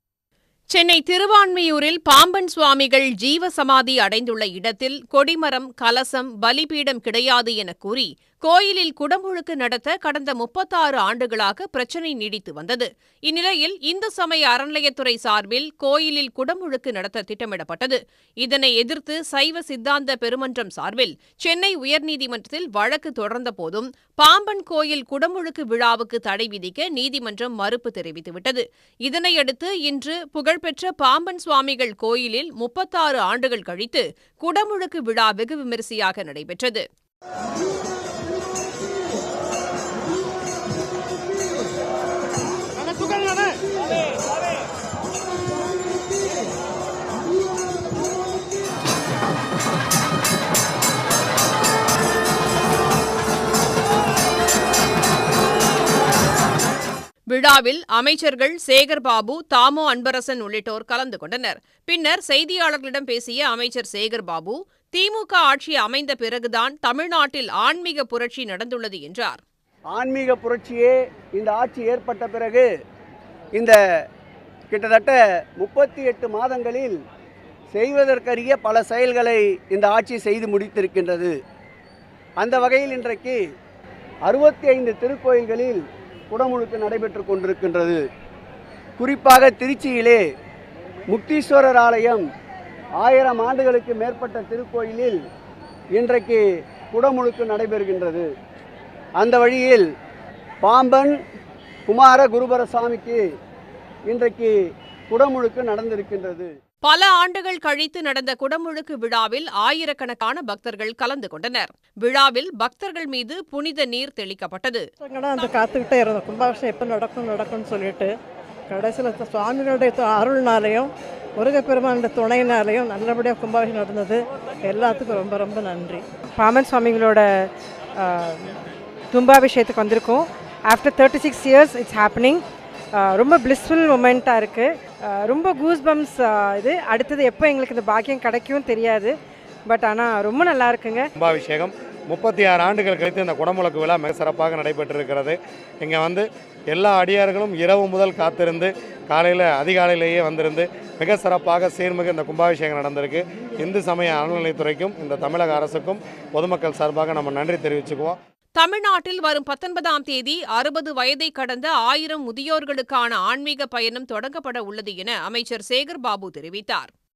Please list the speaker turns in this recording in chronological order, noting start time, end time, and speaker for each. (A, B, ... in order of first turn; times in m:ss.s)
0:00.7-0:36.8 A
0:57.3-1:09.4 A
1:09.9-1:12.7 B
1:14.7-1:17.0 B
1:17.7-1:21.4 B
1:22.4-1:23.4 B
1:24.3-1:28.0 B
1:29.0-1:30.2 B
1:31.1-1:32.2 B
1:33.0-1:35.2 B
1:36.0-1:38.3 B
1:39.2-1:39.8 B
1:40.6-1:41.1 B
1:41.9-1:43.2 B
1:44.1-1:44.5 B
1:45.1-1:46.5 B
1:46.8-1:54.8 A
1:55.0-1:58.1 C
1:58.7-2:06.0 C
2:06.4-2:07.3 D
2:08.0-2:08.5 D
2:09.1-2:12.4 D
2:13.0-2:19.1 D
2:19.7-2:21.1 D
2:21.2-2:38.2 E
2:38.6-2:46.9 A